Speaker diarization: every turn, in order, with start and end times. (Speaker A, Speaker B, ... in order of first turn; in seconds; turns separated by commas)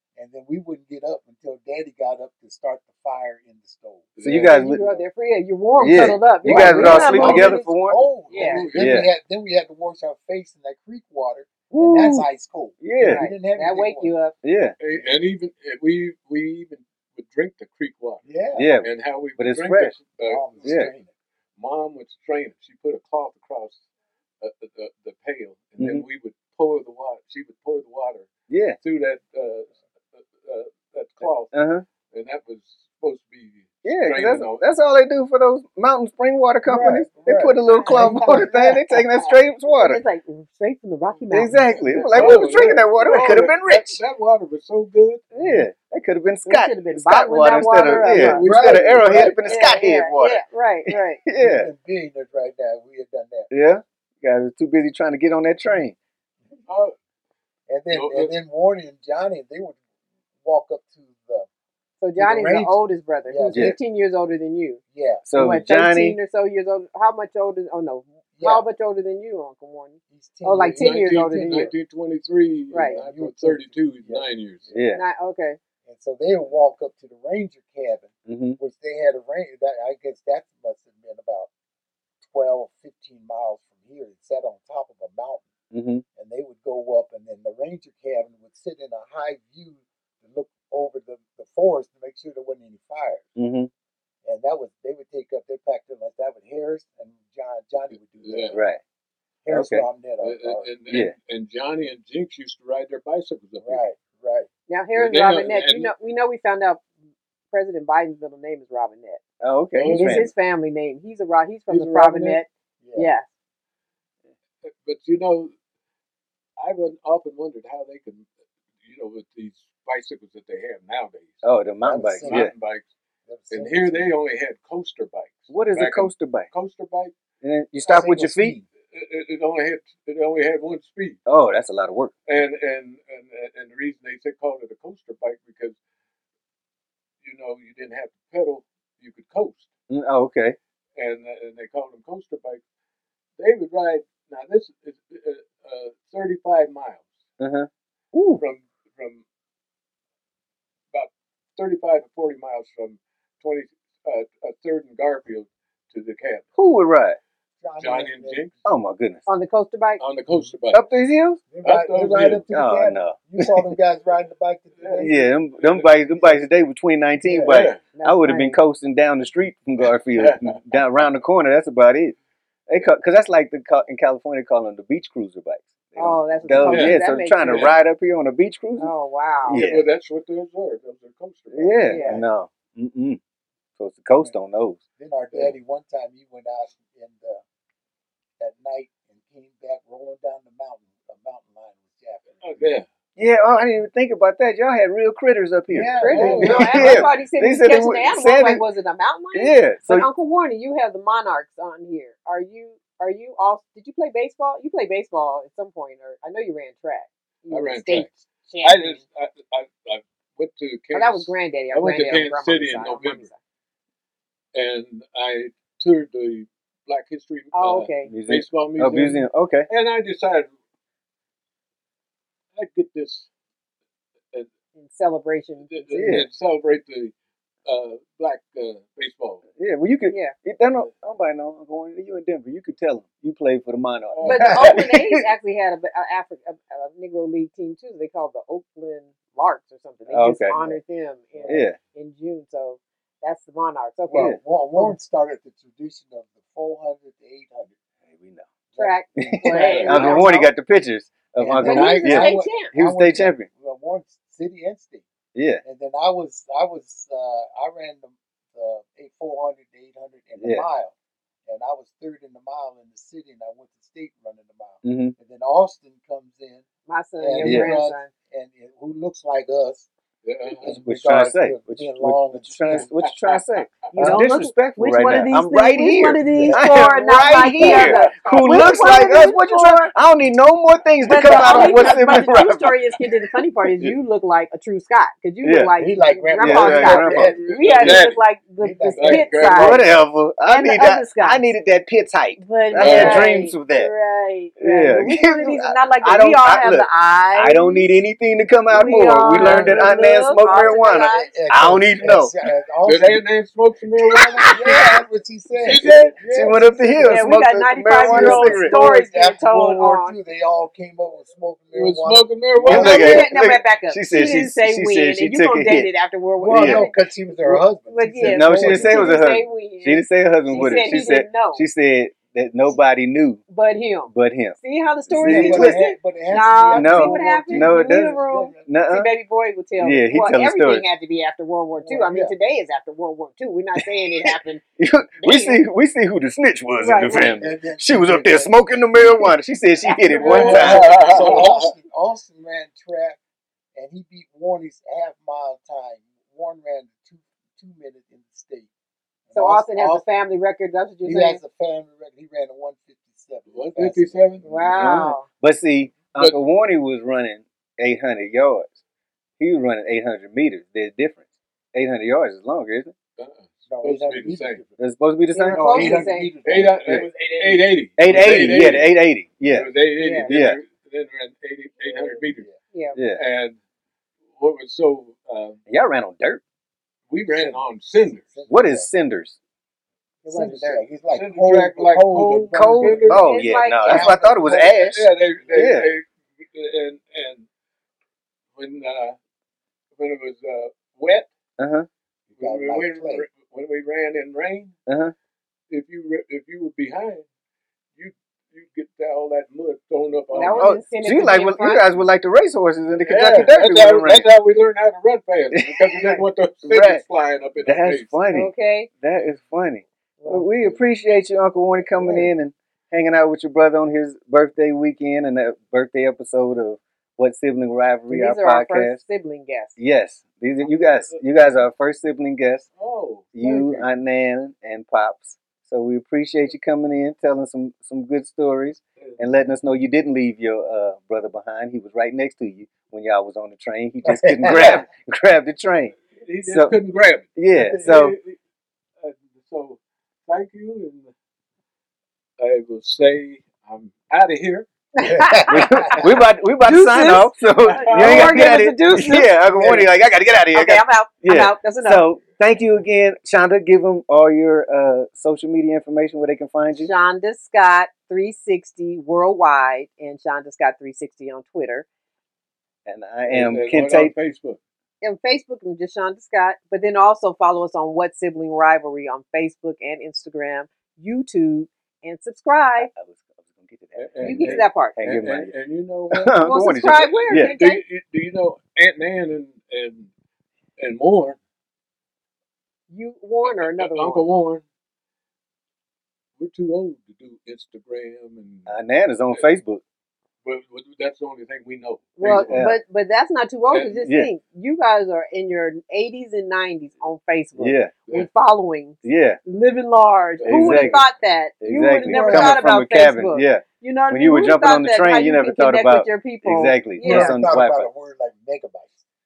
Speaker A: 0.1-4.2, Speaker B: 4.2-4.9, Speaker C: 4.2-4.8, Speaker D: 4.4-7.7, Speaker A: 5.8-14.1, Speaker C: 5.8-8.0, Speaker B: 8.3-9.0, Speaker D: 8.3-8.7, Speaker C: 8.7-9.1, Speaker C: 11.7-12.2, Speaker C: 12.8-13.3, Speaker D: 13.0-14.3, Speaker C: 14.4-14.8, Speaker B: 14.8-18.2, Speaker A: 18.2-18.7, Speaker C: 18.5-20.0, Speaker B: 18.8-20.7, Speaker A: 20.2-21.1, Speaker C: 20.6-20.9, Speaker B: 21.6-23.8, Speaker B: 24.4-28.3, Speaker C: 25.8-26.0, Speaker C: 28.5-28.8, Speaker B: 28.8-31.5, Speaker C: 31.5-31.9, Speaker B: 32.0-34.6, Speaker C: 33.8-40.0, Speaker A: 36.6-38.8, Speaker D: 37.7-41.8, Speaker C: 41.3-44.0, Speaker A: 41.5-42.4, Speaker B: 41.8-45.6, Speaker C: 45.3-51.7, Speaker D: 46.5-48.4, Speaker B: 48.1-49.4, Speaker A: 48.2-49.3, Speaker D: 49.4-51.2, Speaker A: 51.3-53.5, Speaker C: 53.5-56.0, Speaker B: 56.7-56.9, Speaker A: 57.7-59.8, Speaker B: 57.9-58.3, Speaker A: 60.4-61.5, Speaker D: 62.0-64.8, Speaker A: 62.1-63.8, Speaker A: 64.9-65.5, Speaker C: 65.3-66.2, Speaker D: 65.3-71.7, Speaker A: 68.3-68.6, Speaker A: 70.1-71.7, Speaker B: 70.8-74.7, Speaker D: 72.7-73.0, Speaker A: 72.8-74.8, Speaker C: 74.7-75.0, Speaker D: 74.9-75.6, Speaker A: 75.8-81.5, Speaker C: 78.2-78.6, Speaker A: 82.2-85.5, Speaker C: 85.7-86.0, Speaker A: 86.1-93.3, Speaker C: 93.4-93.7, Speaker A: 94.2-98.5, Speaker B: 98.2-98.6, Speaker C: 98.5-98.8, Speaker A: 99.4-100.7, Speaker C: 99.5-99.9, Speaker B: 100.2-103.8, Speaker C: 100.9-101.1, Speaker A: 103.6-104.5, Speaker D: 104.7-106.8, Speaker B: 104.9-105.9, Speaker D: 107.5-109.2, Speaker C: 109.4-110.3, Speaker B: 109.8-110.3, Speaker D: 109.8-113.3, Speaker B: 111.7-112.4, Speaker A: 112.8-113.1, Speaker B: 114.6-115.5, Speaker B: 116.6-118.3, Speaker B: 118.8-121.4, Speaker C: 121.4-122.5, Speaker A: 121.8-122.5, Speaker B: 122.2-122.9, Speaker A: 123.2-124.1, Speaker B: 123.5-127.1, Speaker C: 125.5-126.5, Speaker C: 127.4-128.6, Speaker A: 127.8-128.7, Speaker B: 128.9-131.2, Speaker C: 131.2-132.1, Speaker B: 132.3-135.8, Speaker B: 137.2-139.7, Speaker C: 139.9-140.6, Speaker B: 140.9-142.6, Speaker B: 143.4-147.2, Speaker C: 147.4-148.4, Speaker B: 148.4-149.2, Speaker B: 150.9-156.4, Speaker C: 156.6-157.2, Speaker A: 157.6-158.5, Speaker B: 157.8-158.5, Speaker C: 158.6-159.2, Speaker D: 159.3-160.0, Speaker B: 160.0-160.8, Speaker A: 160.3-160.5, Speaker C: 160.7-161.4, Speaker A: 161.5-165.3, Speaker B: 161.6-162.4, Speaker C: 162.5-163.6, Speaker B: 164.8-165.9, Speaker C: 165.0-172.2, Speaker A: 167.2-167.6, Speaker B: 167.4-167.8, Speaker D: 167.9-168.6, Speaker B: 170.1-170.6, Speaker C: 172.7-178.9, Speaker D: 175.9-177.8, Speaker B: 176.7-177.8, Speaker D: 178.8-179.6, Speaker B: 179.5-182.0, Speaker C: 179.5-179.8, Speaker C: 181.5-183.2, Speaker D: 181.8-182.2, Speaker A: 181.9-182.2, Speaker C: 183.8-184.8, Speaker A: 185.0-187.4, Speaker A: 188.4-192.7, Speaker B: 192.4-192.9, Speaker C: 193.2-198.6, Speaker A: 195.7-197.1, Speaker D: 196.0-209.0, Speaker B: 196.1-197.0, Speaker C: 199.3-200.1, Speaker B: 207.5-208.1, Speaker B: 208.6-213.3, Speaker D: 210.9-213.3, Speaker B: 214.5-220.5, Speaker D: 217.5-218.1, Speaker C: 218.1-219.7, Speaker B: 222.5-223.3, Speaker D: 224.7-226.0, Speaker B: 225.7-227.1, Speaker C: 225.9-226.3, Speaker B: 227.6-229.4, Speaker C: 229.6-235.2, Speaker D: 230.1-230.3, Speaker B: 234.1-234.8, Speaker D: 234.2-245.0, Speaker C: 240.1-240.6, Speaker A: 240.5-240.8, Speaker A: 241.3-241.6, Speaker C: 241.5-241.8, Speaker A: 244.1-247.7, Speaker C: 248.1-248.4, Speaker A: 248.7-250.2, Speaker D: 248.7-250.5, Speaker C: 249.2-253.5, Speaker B: 249.5-250.3, Speaker A: 251.4-255.0, Speaker D: 251.6-252.7, Speaker C: 255.3-255.6, Speaker A: 255.6-260.9, Speaker C: 260.4-260.6, Speaker A: 261.4-266.6, Speaker C: 264.8-265.1, Speaker D: 266.9-268.1, Speaker A: 267.2-269.9, Speaker C: 267.4-267.7, Speaker B: 270.2-270.7, Speaker A: 270.6-272.9, Speaker C: 270.6-282.8, Speaker B: 272.7-274.0, Speaker D: 273.9-279.9, Speaker A: 276.2-277.0, Speaker B: 277.6-278.2, Speaker D: 281.1-289.9, Speaker C: 285.4-285.7, Speaker A: 285.8-289.5, Speaker C: 286.4-287.4, Speaker B: 287.4-288.2, Speaker B: 288.9-289.9, Speaker C: 289.5-293.9, Speaker D: 290.4-291.5, Speaker D: 292.4-298.0, Speaker B: 292.8-293.4, Speaker C: 294.6-302.3, Speaker D: 298.7-301.3, Speaker A: 299.3-299.8, Speaker A: 300.6-303.2, Speaker B: 302.8-304.6, Speaker A: 304.1-307.2, Speaker B: 305.6-306.5, Speaker C: 305.8-308.7, Speaker D: 307.0-310.2, Speaker A: 308.1-313.2, Speaker B: 308.1-308.9, Speaker B: 311.7-313.2, Speaker C: 312.6-315.9, Speaker D: 312.7-321.6, Speaker A: 316.4-319.2, Speaker C: 316.5-316.8, Speaker C: 318.3-323.4, Speaker D: 323.5-334.6, Speaker C: 324.1-324.6, Speaker A: 325.1-328.7, Speaker C: 325.2-325.8, Speaker C: 326.7-329.1, Speaker C: 329.8-330.8, Speaker A: 331.8-332.3, Speaker C: 334.8-341.3, Speaker D: 335.2-335.6, Speaker D: 336.8-337.4, Speaker A: 337.3-339.2, Speaker D: 339.8-341.5, Speaker B: 340.2-341.7, Speaker A: 340.3-343.2, Speaker A: 343.7-348.7, Speaker A: 349.3-350.0, Speaker D: 349.3-351.4, Speaker A: 351.0-354.7, Speaker B: 353.5-354.7, Speaker D: 354.4-355.2, Speaker C: 354.8-358.8, Speaker C: 359.4-362.9, Speaker B: 363.2-364.6, Speaker A: 363.7-364.8, Speaker C: 364.8-366.1, Speaker D: 365.3-366.3, Speaker A: 365.5-367.3, Speaker B: 366.4-372.5, Speaker C: 368.0-369.7, Speaker D: 370.0-370.3, Speaker C: 370.2-370.6, Speaker A: 371.9-372.6, Speaker D: 372.7-373.0, Speaker C: 372.9-373.2, Speaker B: 373.1-373.6, Speaker B: 374.3-375.6, Speaker C: 375.7-376.4, Speaker B: 377.1-378.2, Speaker A: 377.3-378.9, Speaker C: 378.5-379.4, Speaker D: 380.2-380.8, Speaker A: 380.2-383.2, Speaker B: 381.1-383.2, Speaker C: 382.5-385.9, Speaker D: 383.1-384.1, Speaker A: 383.8-384.5, Speaker B: 384.3-387.5, Speaker A: 385.4-385.7, Speaker B: 388.6-389.2, Speaker B: 389.9-391.3, Speaker C: 391.6-391.9, Speaker A: 392.4-393.2, Speaker B: 392.4-394.8, Speaker C: 394.9-395.1, Speaker B: 395.7-397.2, Speaker B: 398.0-400.7, Speaker D: 400.3-401.9, Speaker C: 400.6-404.3, Speaker B: 403.0-408.1, Speaker C: 405.5-407.0, Speaker C: 407.6-419.0, Speaker D: 408.3-408.9, Speaker D: 410.2-410.5, Speaker B: 412.0-412.3, Speaker D: 418.1-419.8, Speaker C: 419.8-422.7, Speaker B: 420.6-421.6, Speaker B: 422.8-423.9, Speaker C: 423.3-436.8, Speaker A: 434.0-434.8, Speaker B: 436.1-438.4, Speaker C: 437.4-438.1, Speaker B: 439.0-441.1, Speaker B: 442.4-444.7, Speaker D: 444.9-446.1, Speaker A: 445.1-446.0, Speaker C: 445.4-456.9, Speaker D: 446.6-449.4, Speaker B: 447.8-448.6, Speaker D: 450.5-452.0, Speaker D: 456.7-461.9, Speaker C: 462.9-464.1, Speaker B: 463.3-464.6, Speaker D: 465.0-472.9, Speaker C: 472.8-475.5, Speaker B: 473.9-476.4, Speaker D: 474.2-475.0, Speaker C: 476.1-477.5, Speaker D: 476.4-477.8, Speaker B: 476.9-480.1, Speaker B: 480.8-481.4, Speaker D: 482.9-484.2, Speaker B: 483.4-484.6, Speaker B: 486.4-488.7, Speaker C: 488.7-489.8, Speaker B: 490.4-492.8, Speaker D: 492.2-507.4, Speaker C: 492.4-492.8, Speaker B: 493.7-494.0, Speaker C: 494.0-494.3, Speaker C: 497.6-498.0, Speaker C: 499.0-499.4, Speaker B: 500.4-501.0, Speaker C: 500.4-501.0, Speaker C: 501.6-507.9, Speaker A: 502.0-502.6, Speaker A: 507.0-509.0